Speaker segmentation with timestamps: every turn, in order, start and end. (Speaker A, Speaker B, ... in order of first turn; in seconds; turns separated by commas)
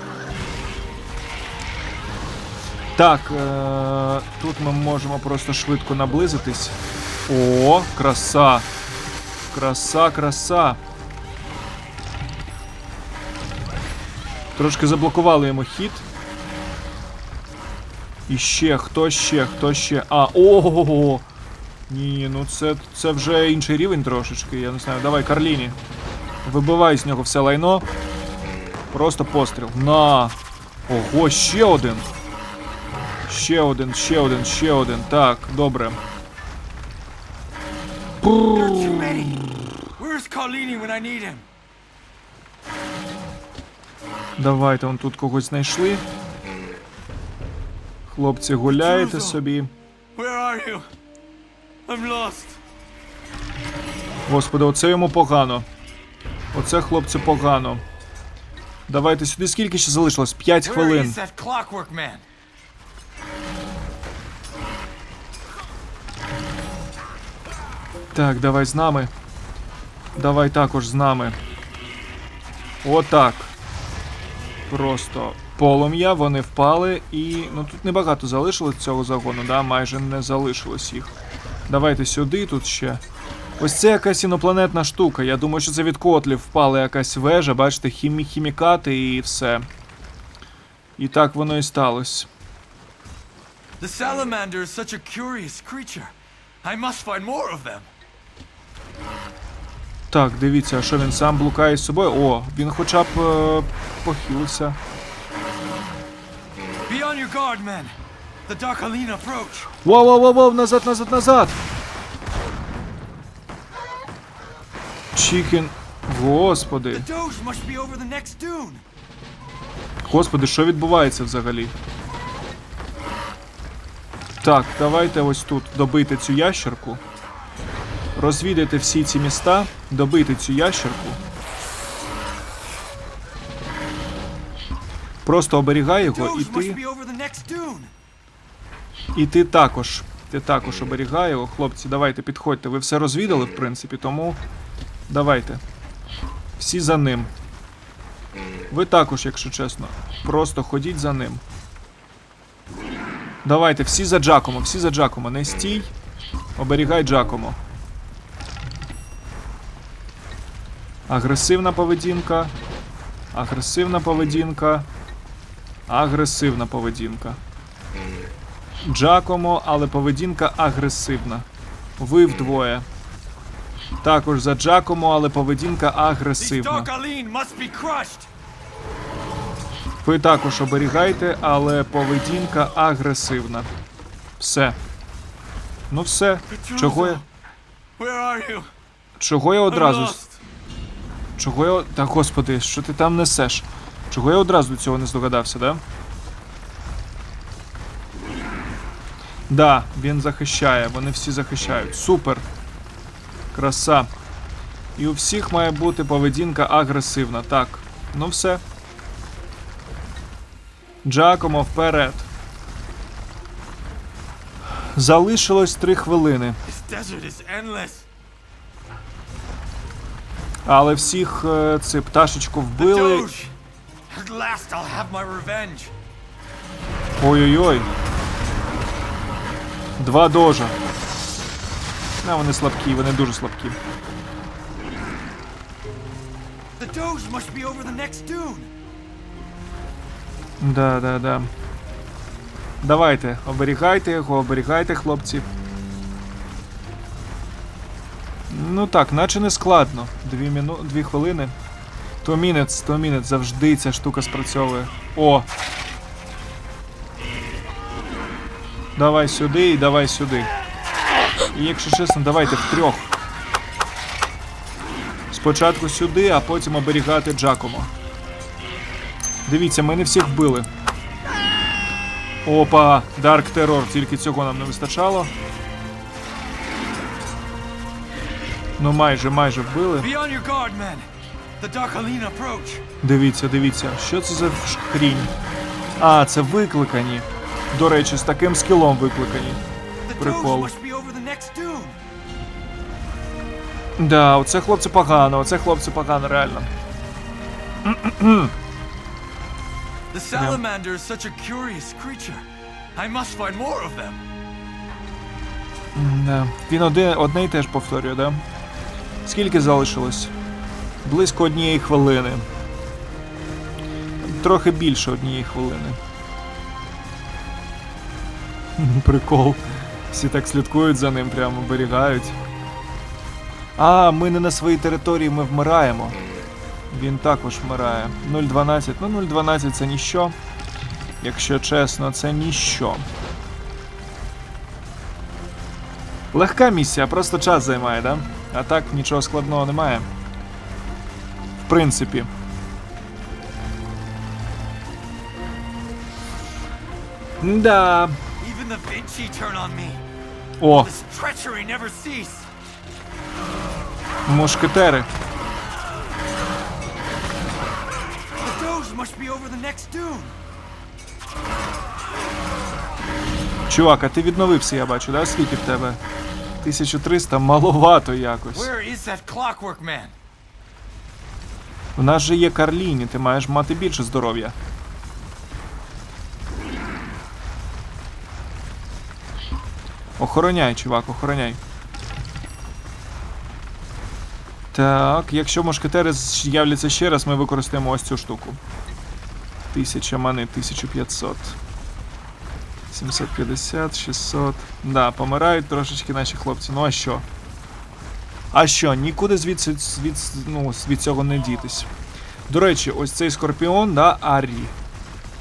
Speaker A: 3.0-8.7, Speaker A: 9.5-10.8, Speaker A: 14.6-16.1, Speaker A: 18.3-21.2, Speaker A: 21.9-25.8, Speaker A: 26.4-27.9, Speaker A: 28.9-30.4, Speaker A: 30.9-32.1, Speaker A: 33.3-36.0, Speaker B: 38.3-41.4, Speaker A: 44.4-46.0, Speaker A: 48.0-49.7, Speaker B: 48.6-49.4, Speaker B: 50.1-50.9, Speaker B: 51.9-52.6, Speaker A: 54.3-55.7, Speaker A: 56.5-57.8, Speaker A: 58.9-61.2, Speaker B: 60.6-62.2, Speaker A: 68.1-69.1, Speaker A: 70.2-71.4, Speaker A: 72.8-73.5, Speaker A: 74.7-81.1, Speaker A: 81.7-83.0, Speaker A: 83.6-89.7, Speaker A: 91.0-92.3, Speaker B: 93.8-96.1, Speaker B: 96.6-97.9, Speaker A: 100.1-104.8, Speaker B: 106.8-107.9, Speaker B: 108.5-109.7, Speaker A: 109.8-111.6, Speaker A: 115.1-117.0, Speaker B: 116.9-118.8, Speaker A: 120.0-121.7, Speaker A: 124.4-127.0, Speaker A: 128.1-131.2, Speaker A: 135.2-136.8, Speaker B: 136.0-137.9, Speaker A: 139.1-144.4, Speaker A: 145.1-145.6, Speaker A: 146.6-147.3, Speaker A: 148.7-151.4, Speaker A: 153.4-155.9, Speaker A: 156.6-157.6, Speaker A: 161.1-162.5, Speaker A: 163.3-164.9, Speaker A: 165.9-167.4, Speaker A: 168.8-171.5, Speaker A: 172.0-172.8, Speaker A: 174.0-176.9, Speaker B: 176.4-178.3, Speaker A: 180.0-183.7, Speaker A: 184.4-184.8, Speaker A: 185.9-187.2, Speaker B: 186.5-187.2, Speaker B: 188.0-188.7, Speaker A: 189.2-190.2, Speaker B: 189.7-190.4, Speaker A: 191.4-195.8, Speaker A: 199.5-202.4, Speaker A: 203.5-204.1, Speaker A: 204.9-208.6, Speaker A: 211.0-212.3, Speaker A: 214.9-216.6, Speaker B: 216.7-218.1, Speaker A: 220.7-223.3, Speaker B: 222.8-223.5, Speaker B: 224.1-225.9, Speaker A: 227.2-227.9, Speaker A: 230.0-230.8, Speaker A: 232.2-233.8, Speaker B: 236.8-238.7, Speaker A: 240.6-241.5, Speaker A: 242.8-245.5, Speaker A: 248.5-251.5, Speaker A: 252.2-255.4, Speaker A: 258.9-260.5, Speaker A: 261.5-263.1, Speaker A: 265.3-267.9, Speaker A: 269.4-270.7, Speaker A: 272.4-275.3, Speaker A: 278.8-280.1, Speaker B: 280.0-281.1, Speaker B: 281.6-282.8, Speaker A: 283.0-285.3, Speaker A: 286.0-289.6, Speaker B: 290.1-292.0, Speaker A: 290.2-290.7, Speaker A: 294.0-296.7, Speaker A: 297.8-298.5, Speaker B: 300.1-302.4, Speaker A: 300.3-300.6, Speaker B: 302.9-304.2, Speaker A: 305.9-308.4, Speaker A: 309.2-310.3, Speaker A: 311.0-312.4, Speaker A: 314.2-316.0, Speaker A: 318.8-322.4, Speaker A: 323.8-326.2, Speaker A: 326.9-330.3, Speaker A: 331.2-333.1, Speaker A: 336.3-340.1, Speaker A: 341.6-342.3, Speaker A: 347.4-348.2, Speaker B: 348.4-350.0, Speaker A: 350.6-350.9, Speaker B: 350.7-352.5, Speaker A: 354.2-355.1, Speaker B: 358.4-360.3, Speaker A: 363.7-366.0, Speaker A: 366.6-368.7, Speaker B: 368.5-370.1, Speaker A: 371.9-374.6, Speaker A: 380.2-381.6, Speaker A: 384.7-388.6, Speaker A: 389.7-391.6, Speaker A: 392.9-397.2, Speaker A: 398.5-401.9, Speaker A: 402.5-404.7